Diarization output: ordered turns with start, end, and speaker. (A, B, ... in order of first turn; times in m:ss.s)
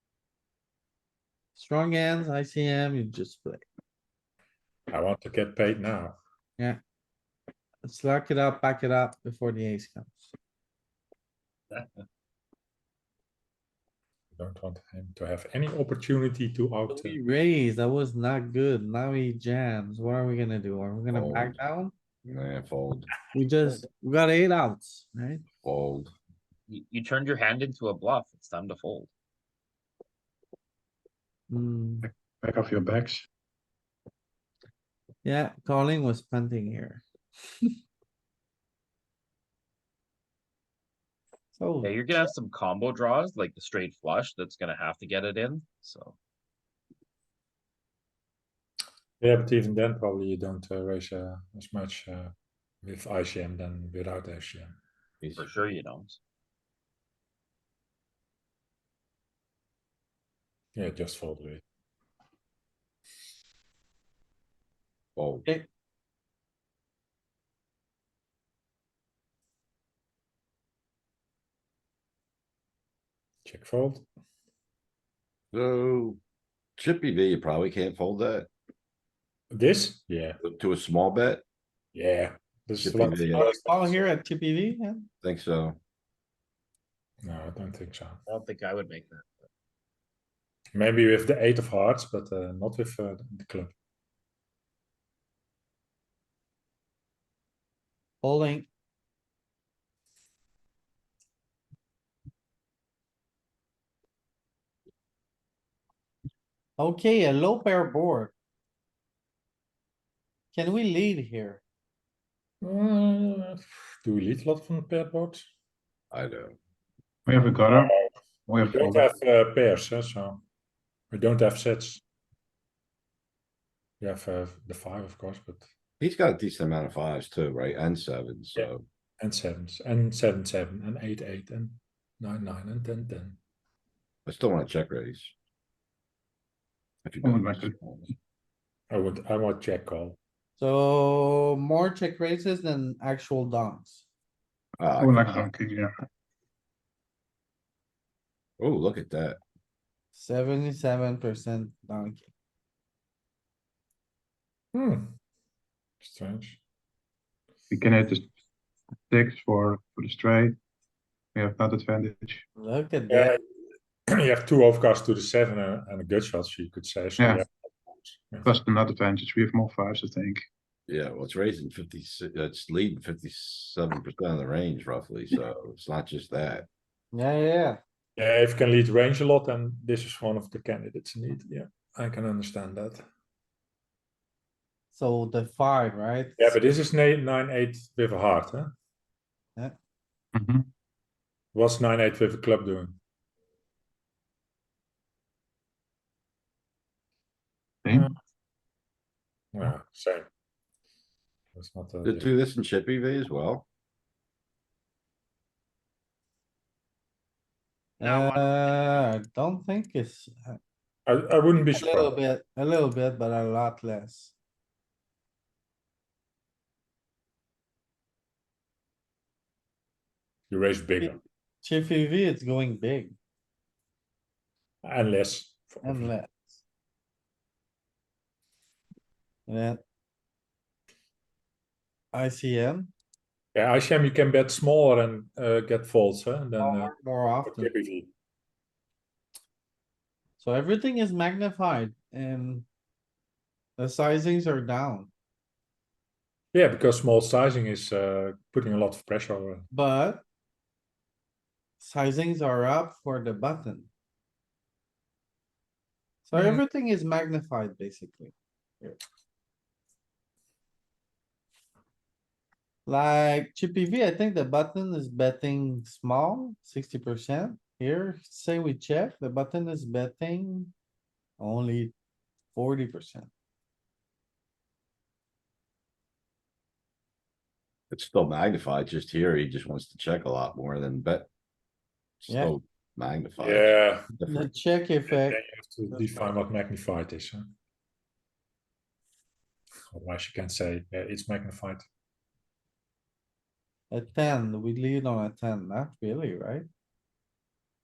0:01.6-0:03.6 A
0:04.9-0:06.2 B
0:07.8-0:10.3 A
0:14.3-0:17.2 B
0:16.9-0:21.9 A
0:21.1-0:21.6 C
0:22.2-0:23.1 C
0:23.3-0:25.4 A
0:25.6-0:26.1 C
0:26.7-0:29.1 D
0:31.5-0:32.1 A
0:32.0-0:33.3 E
0:35.2-0:37.0 A
0:41.6-0:42.3 A
0:41.8-0:46.2 D
0:49.2-0:54.8 B
0:55.2-0:55.5 C
0:55.4-0:56.2 D
1:00.8-1:01.6 B
1:05.2-1:05.5 C
1:13.4-1:14.1 B
1:15.5-1:16.2 C
1:16.8-1:18.5 C
1:19.5-1:20.4 B
1:20.4-1:21.4 C
1:21.9-1:24.0 B
1:22.8-1:23.5 C
1:23.3-1:25.1 A
1:25.2-1:25.8 C
1:27.2-1:28.2 B
1:28.3-1:29.3 D
1:30.7-1:33.7 B
1:38.2-1:38.7 A
1:46.8-1:48.4 A
1:50.5-1:51.6 A
1:52.6-1:55.5 B
1:56.1-1:56.6 C
1:57.3-1:57.9 E
1:57.7-2:00.4 B
1:58.5-1:59.1 E
2:01.1-2:02.0 B
2:04.0-2:05.7 B
2:06.0-2:08.8 C
2:09.2-2:13.4 B
2:14.3-2:15.3 C
2:17.0-2:18.0 C
2:17.2-2:17.8 E
2:18.9-2:20.2 B
2:20.6-2:24.1 A
2:24.8-2:25.5 C
2:25.0-2:25.9 E
2:28.6-2:29.4 C
2:30.1-2:32.3 A
2:34.7-2:35.1 B
2:36.0-2:36.6 B
2:37.7-2:38.3 E
2:39.1-2:40.6 E
2:41.4-2:42.4 E
2:42.6-2:43.3 A
2:43.1-2:43.4 B
2:44.1-2:48.5 B
2:47.2-2:47.4 E
2:48.4-2:50.4 E
2:50.9-2:56.7 C
2:57.1-2:57.8 A
2:58.2-3:03.1 B
3:04.9-3:06.7 A
3:06.4-3:08.8 B
3:10.3-3:10.7 E
3:11.5-3:13.0 B
3:17.9-3:18.2 B
3:19.5-3:20.3 B
3:21.6-3:22.3 B
3:22.0-3:23.7 C
3:28.0-3:30.6 A
3:28.0-3:28.4 D
3:31.1-3:32.1 B
3:31.7-3:34.3 A
3:40.5-3:41.2 B
3:41.6-3:43.2 A
3:44.8-3:46.1 B
3:45.8-3:46.6 A
3:49.5-3:49.8 A
3:52.1-3:52.9 A
3:53.5-3:56.9 B
3:56.6-3:57.7 A
3:57.4-3:58.1 B
4:00.4-4:02.7 A
4:03.8-4:05.1 A
4:06.5-4:09.7 B
4:09.7-4:10.2 A
4:11.8-4:13.9 A
4:16.3-4:19.0 A
4:16.4-4:16.6 B
4:22.9-4:30.7 A
4:31.4-4:31.9 A
4:32.6-4:33.3 A
4:37.9-4:41.3 C
4:42.2-4:44.4 C
4:43.4-4:44.1 B
4:44.3-4:45.4 A
4:45.1-4:47.6 B
4:45.9-4:46.3 A
4:49.9-4:51.8 B
4:53.9-4:56.7 A